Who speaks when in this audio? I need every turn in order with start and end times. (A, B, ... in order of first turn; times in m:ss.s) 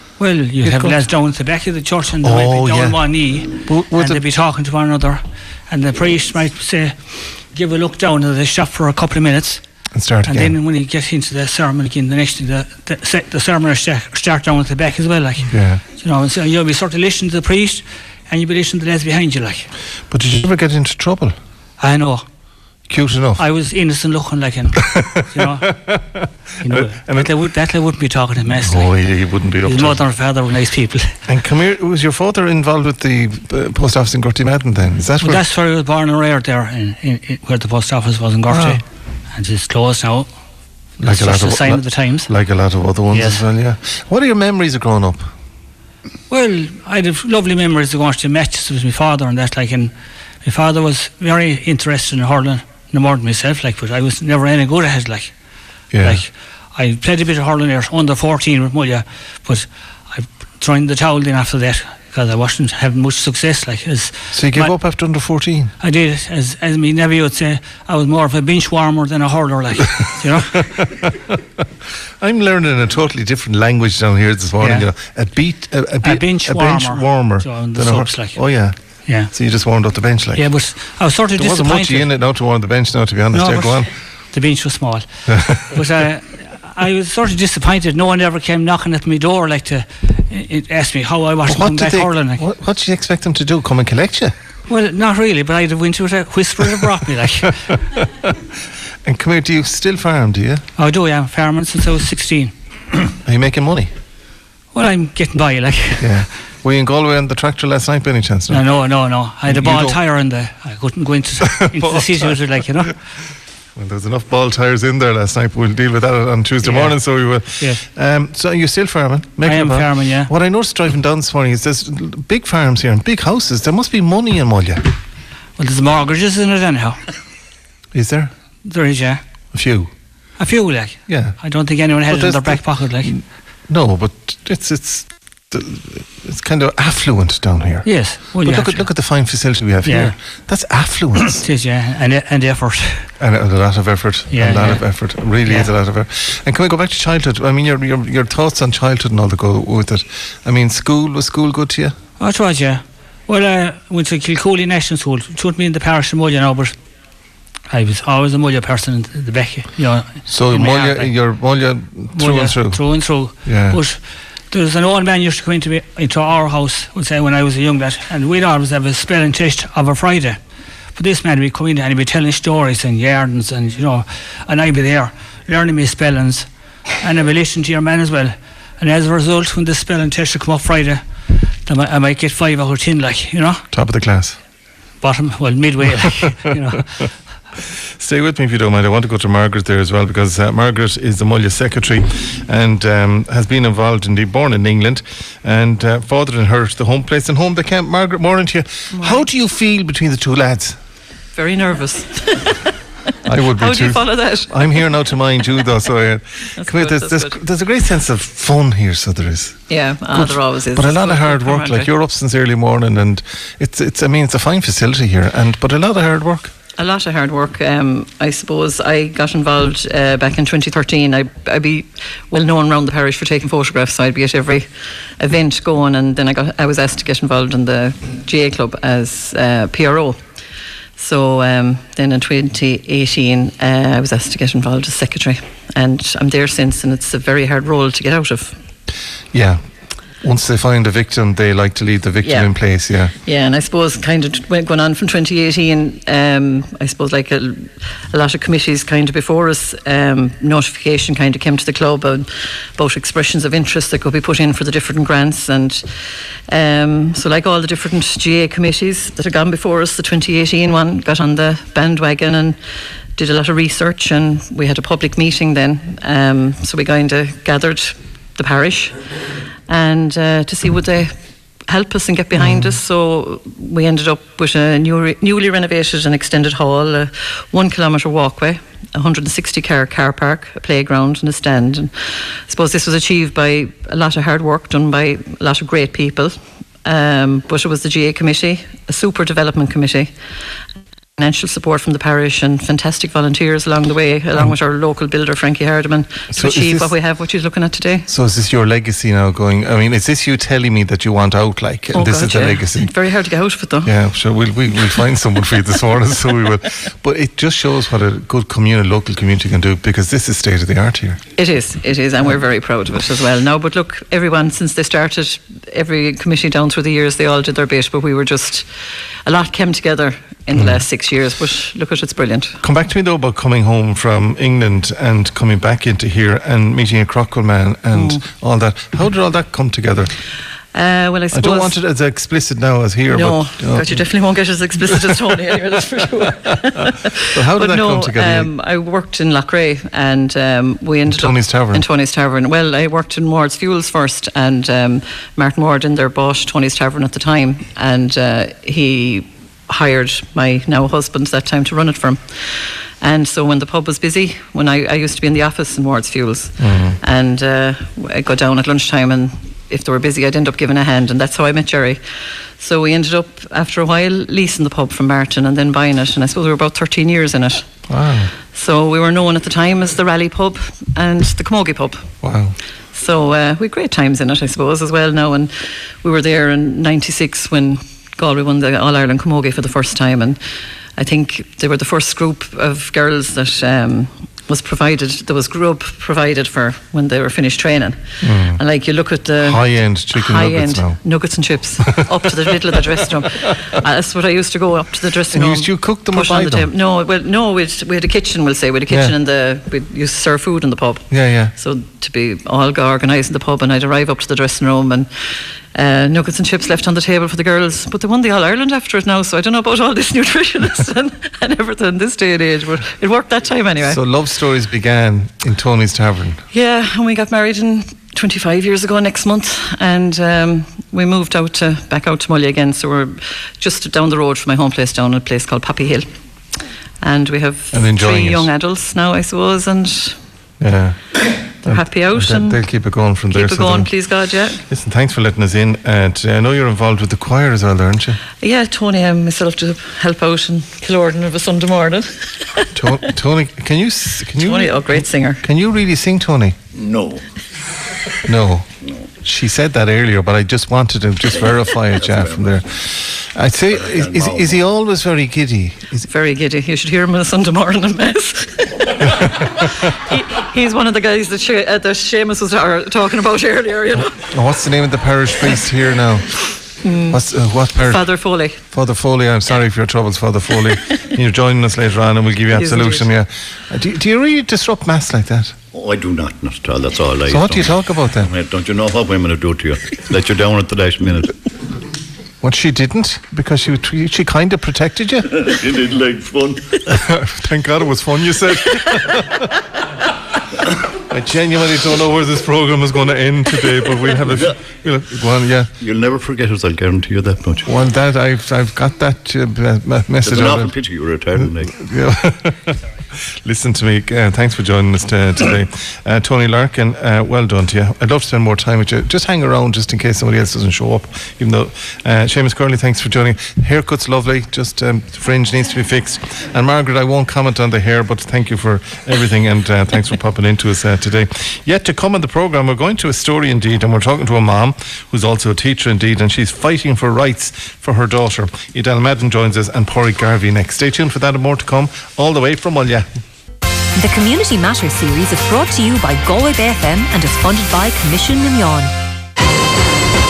0:00.2-0:09.6 A
0:00.6-0:01.0 B
0:02.2-0:03.0 B
0:03.6-0:04.2 B
0:09.9-0:10.5 B
0:10.2-0:19.7 A
0:15.5-0:15.8 B
0:20.1-0:21.4 B
0:21.8-0:22.2 A
0:22.9-0:23.4 B
0:23.4-0:25.8 A
0:24.8-0:27.3 B
0:26.6-0:28.9 A
0:28.5-0:30.0 B
0:29.6-0:31.1 A
0:31.3-0:35.4 B
0:35.2-0:40.3 A
0:38.5-0:38.8 B
0:41.0-0:42.3 A
0:41.0-0:45.3 B
0:43.1-0:43.4 A
0:46.3-0:55.3 A
0:55.9-0:56.2 B
0:56.0-1:04.7 A
1:04.3-1:05.7 B
1:05.8-1:10.9 A
1:10.6-1:11.1 B
1:12.2-1:20.5 B
1:14.6-1:14.8 A
1:16.0-1:18.4 A
1:19.0-1:19.3 A
1:20.4-1:22.1 A
1:21.3-1:23.9 B
1:23.3-1:32.4 A
1:25.3-1:25.8 B
1:31.4-1:34.3 B
1:34.7-1:37.8 A
1:39.0-1:40.6 B
1:40.8-1:42.5 A
1:43.2-1:43.9 B
1:44.7-1:46.3 A
1:46.0-1:48.6 B
1:48.5-1:53.0 A
1:49.5-1:50.0 B
1:51.4-1:52.4 B
1:53.7-2:04.8 B
1:56.6-1:57.0 A
1:59.4-2:00.3 A
2:05.6-2:07.0 A
2:07.9-2:08.3 B
2:08.6-2:09.2 A
2:09.5-2:09.9 B
2:10.4-2:13.2 A
2:11.1-2:11.4 B
2:12.0-2:21.4 B
2:17.8-2:18.9 A
2:19.8-2:20.2 A
2:21.1-2:23.1 A
2:23.2-2:32.0 B
2:24.3-2:25.7 A
2:32.2-2:36.8 A
2:37.7-2:41.1 A
2:40.3-2:43.8 B
2:42.1-2:50.4 A
2:50.9-3:01.0 A
3:01.6-3:03.6 A
3:03.7-3:04.4 B
3:05.0-3:07.1 A
3:08.0-3:20.8 B
3:18.9-3:19.2 C
3:21.3-3:22.7 C
3:23.2-3:36.5 B
3:23.5-3:25.0 C
3:26.6-3:27.4 C
3:29.7-3:31.9 C
3:36.8-3:50.2 C
3:51.0-3:58.6 C
3:59.3-3:59.6 B
4:00.2-4:03.1 B
4:02.2-4:02.5 C
4:03.2-4:22.6 C
4:23.1-4:29.1 C
4:29.7-4:31.1 C
4:31.6-4:50.1 C
4:32.3-4:32.7 B
4:51.2-4:58.1 C
4:56.3-4:56.9 B
4:58.1-5:02.9 B
5:01.9-5:03.9 C
5:03.8-5:11.2 B
5:11.4-5:22.6 C
5:20.5-5:20.8 B
5:22.6-5:30.1 B
5:27.9-5:28.2 C
5:30.7-5:31.7 C
5:31.3-5:34.0 B
5:33.1-6:07.7 C
5:37.3-5:38.5 B
5:41.1-5:41.8 B
5:56.6-5:57.0 B
6:07.9-6:08.3 B
6:08.5-6:12.1 C
6:12.2-6:12.6 B
6:12.9-6:20.4 C
6:21.0-6:54.0 C
6:28.2-6:28.6 B
6:29.4-6:31.0 B
6:35.3-6:36.7 B
6:38.9-6:39.1 B
6:41.1-6:41.5 B
6:53.8-6:56.4 B
6:56.5-7:06.2 C
7:07.0-7:10.2 C
7:07.7-7:08.5 B
7:10.6-7:13.9 B
7:11.6-7:12.6 C
7:13.3-7:14.6 C
7:14.6-7:18.2 B
7:18.4-7:22.7 C
7:22.7-7:26.6 B
7:24.3-7:25.4 C
7:26.7-7:27.2 D
7:28.2-7:28.7 B
7:29.2-7:36.1 B
7:32.0-7:32.4 D
7:33.7-7:34.6 D
7:36.1-7:44.2 C
7:39.0-7:39.7 B
7:44.2-7:46.5 B
7:46.8-7:47.2 C
7:47.1-7:55.6 B
7:47.7-7:48.6 C
7:52.5-7:53.1 C
7:55.7-8:01.4 D
7:57.2-7:58.3 B
8:02.4-8:05.5 B
8:05.3-8:06.9 D
8:06.9-8:09.5 B
8:11.0-8:15.7 B
8:15.8-8:17.7 D
8:17.6-8:20.7 B
8:20.2-8:21.8 D
8:21.4-8:53.1 B
8:54.0-8:58.9 E